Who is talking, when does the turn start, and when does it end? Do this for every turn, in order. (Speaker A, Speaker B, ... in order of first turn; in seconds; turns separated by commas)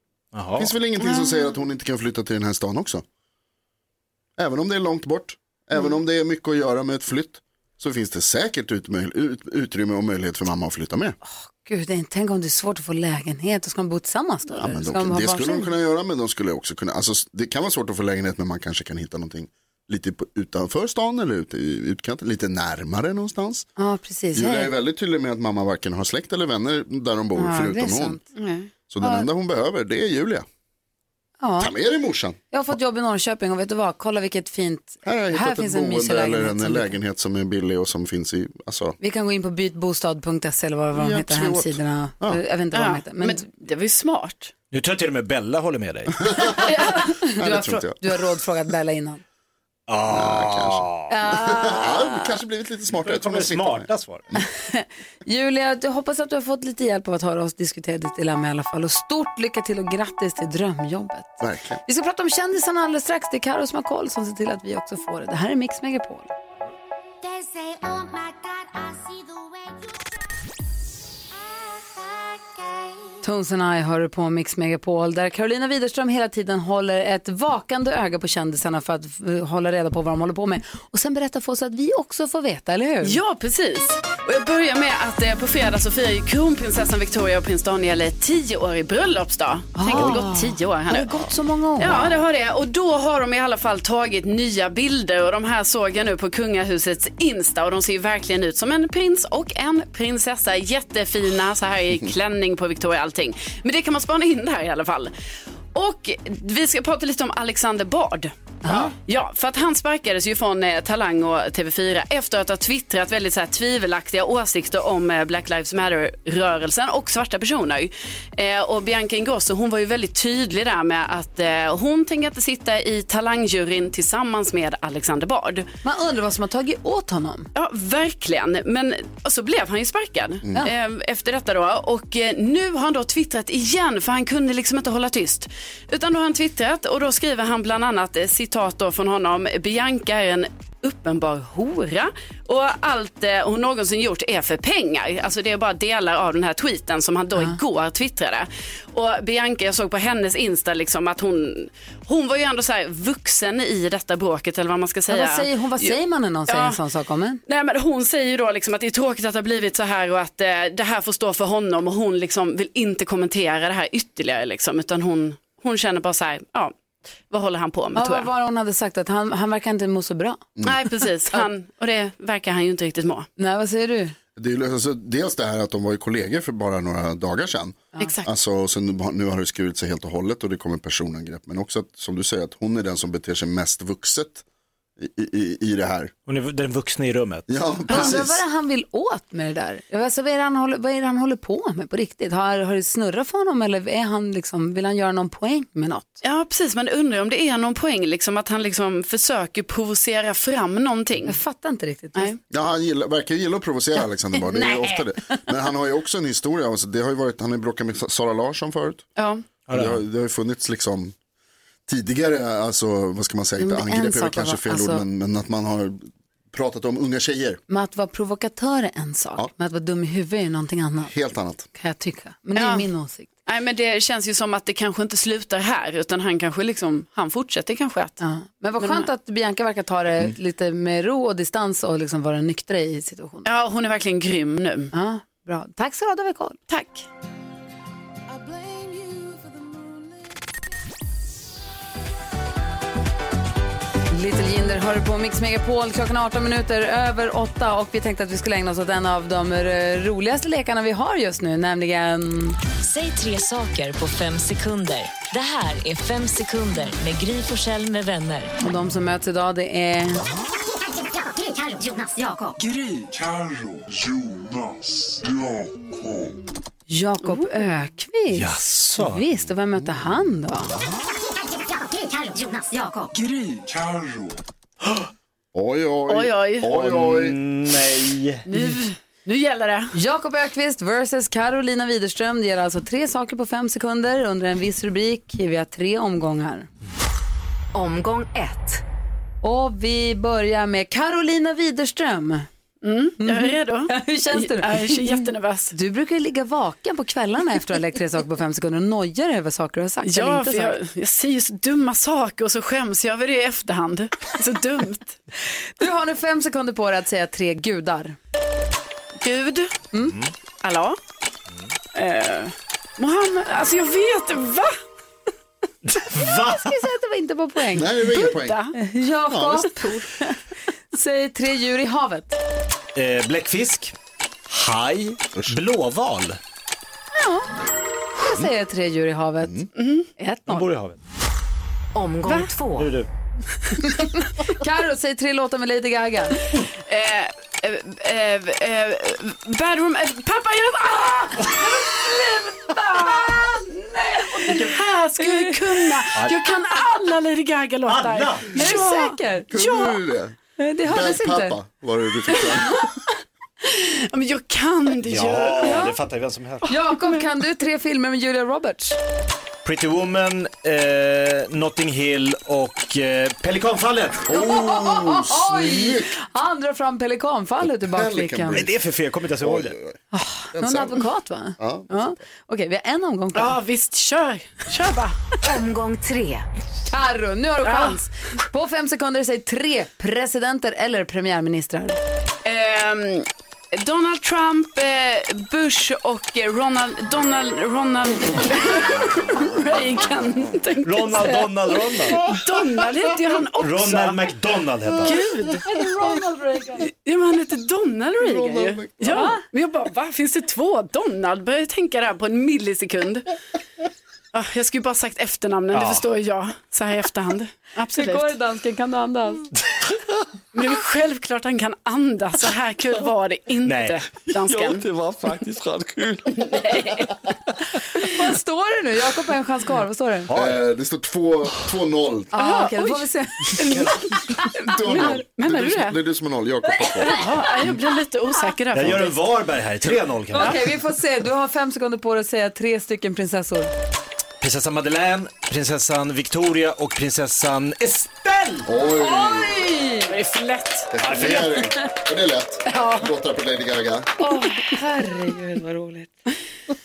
Speaker A: 0.3-0.7, Speaker B: 0.6-3.0, Speaker B: 4.4-11.2, Speaker C: 11.2-15.7, Speaker B: 14.5-23.7, Speaker C: 23.8-24.7, Speaker B: 24.4-28.2, Speaker C: 27.4-28.3, Speaker D: 28.4-28.7, Speaker B: 28.9-30.5, Speaker C: 29.0-29.3, Speaker C: 31.4-31.7, Speaker B: 31.6-32.4, Speaker C: 32.5-37.0, Speaker B: 35.0-39.0, Speaker C: 39.0-43.5, Speaker B: 41.0-42.4, Speaker D: 42.7-44.5, Speaker A: 44.7-46.5, Speaker C: 46.5-49.2, Speaker B: 47.4-48.1, Speaker A: 49.9-51.1, Speaker B: 50.1-50.9, Speaker C: 51.1-52.3, Speaker B: 51.5-53.9, Speaker A: 53.0-54.2, Speaker C: 54.6-66.3, Speaker B: 61.4-61.8, Speaker C: 73.2-83.2, Speaker D: 83.0-105.1, Speaker C: 89.8-92.1, Speaker D: 105.7-125.7, Speaker C: 108.6-108.9, Speaker C: 125.8-127.5, Speaker D: 127.5-156.0, Speaker C: 155.1-157.4, Speaker D: 156.5-156.8, Speaker D: 157.5-166.7, Speaker D: 167.3-168.3, Speaker C: 168.0-170.4, Speaker D: 170.6-173.3, Speaker C: 173.4-174.2, Speaker B: 174.4-184.4, Speaker D: 178.0-178.3, Speaker B: 185.0-186.1, Speaker A: 186.3-187.5, Speaker B: 187.5-188.4, Speaker C: 187.9-196.2, Speaker D: 196.2-201.4, Speaker C: 201.3-202.3, Speaker B: 202.5-209.1, Speaker C: 204.5-205.0, Speaker D: 209.2-209.5, Speaker A: 209.7-210.0, Speaker B: 209.7-211.1, Speaker B: 211.9-217.6, Speaker C: 213.6-215.0, Speaker C: 217.7-221.1, Speaker B: 221.1-221.7, Speaker C: 221.7-223.3, Speaker D: 222.6-222.9, Speaker D: 223.5-228.2, Speaker C: 228.2-233.5, Speaker D: 228.8-229.1, Speaker D: 233.4-234.9, Speaker C: 234.9-236.6, Speaker D: 236.7-237.1, Speaker C: 244.1-252.6, Speaker E: 252.8-258.5, Speaker C: 258.6-260.2, Speaker E: 261.7-262.6, Speaker F: 262.6-266.4, Speaker C: 266.9-270.7, Speaker A: 268.3-269.2, Speaker E: 272.1-273.1, Speaker F: 273.1-274.4, Speaker B: 275.5-277.4, Speaker D: 276.1-276.7, Speaker A: 276.7-278.5, Speaker D: 278.5-279.9, Speaker C: 279.9-286.7, Speaker E: 287.7-288.8, Speaker C: 289.4-292.5, Speaker D: 292.8-295.7, Speaker C: 293.2-300.8, Speaker D: 300.0-305.2, Speaker C: 305.8-308.2, Speaker D: 309.1-309.8, Speaker A: 310.0-310.3, Speaker D: 310.6-311.0, Speaker D: 311.9-314.8, Speaker A: 315.9-316.7, Speaker C: 316.5-318.1, Speaker B: 317.7-318.6, Speaker D: 318.0-318.8, Speaker C: 318.8-320.4, Speaker B: 319.3-319.9, Speaker C: 320.9-322.4, Speaker A: 322.9-323.9, Speaker A: 324.5-326.4, Speaker C: 327.2-327.5, Speaker C: 328.2-329.7, Speaker D: 329.8-330.1, Speaker C: 330.2-330.7, Speaker A: 330.5-331.0, Speaker E: 331.9-332.9, Speaker D: 332.3-332.5, Speaker A: 332.8-333.1, Speaker C: 333.8-336.4, Speaker D: 336.8-343.6, Speaker C: 343.0-344.6, Speaker D: 344.3-350.0, Speaker C: 345.2-345.6, Speaker A: 347.9-348.6, Speaker C: 348.5-349.6, Speaker B: 349.5-352.9, Speaker C: 350.6-351.6, Speaker D: 353.6-355.9, Speaker A: 355.0-356.7, Speaker C: 356.7-359.0, Speaker A: 359.6-364.3, Speaker B: 364.3-366.1, Speaker C: 364.3-368.7, Speaker B: 367.6-368.8, Speaker A: 368.5-369.8, Speaker B: 369.4-370.0, Speaker C: 370.1-373.6, Speaker B: 370.5-371.1, Speaker B: 371.6-372.1, Speaker D: 373.4-375.2, Speaker E: 375.4-376.5, Speaker C: 376.9-382.0, Speaker D: 377.6-378.0, Speaker D: 382.4-394.3, Speaker A: 390.8-392.3, Speaker A: 393.6-395.2, Speaker D: 395.0-395.6, Speaker C: 395.7-396.9, Speaker D: 396.9-403.3, Speaker B: 398.2-399.3, Speaker C: 399.1-399.4, Speaker D: 404.3-408.4, Speaker A: 405.7-406.1, Speaker C: 407.9-409.5, Speaker D: 410.5-414.9, Speaker A: 413.6-414.0, Speaker F: 414.4-417.1, Speaker D: 416.5-417.1, Speaker C: 417.9-420.3, Speaker A: 420.3-420.6, Speaker B: 420.3-422.3, Speaker C: 422.3-423.7, Speaker D: 422.4-423.0, Speaker D: 423.6-426.0, Speaker B: 424.7-427.7, Speaker C: 426.8-427.3, Speaker D: 427.0-429.2, Speaker A: 428.7-430.7, Speaker C: 430.3-433.7, Speaker A: 434.4-438.7, Speaker B: 438.7-439.6, Speaker C: 439.0-440.1, Speaker D: 440.1-441.4, Speaker B: 440.9-444.1, Speaker A: 441.0-441.4, Speaker D: 442.7-443.1, Speaker C: 444.2-446.2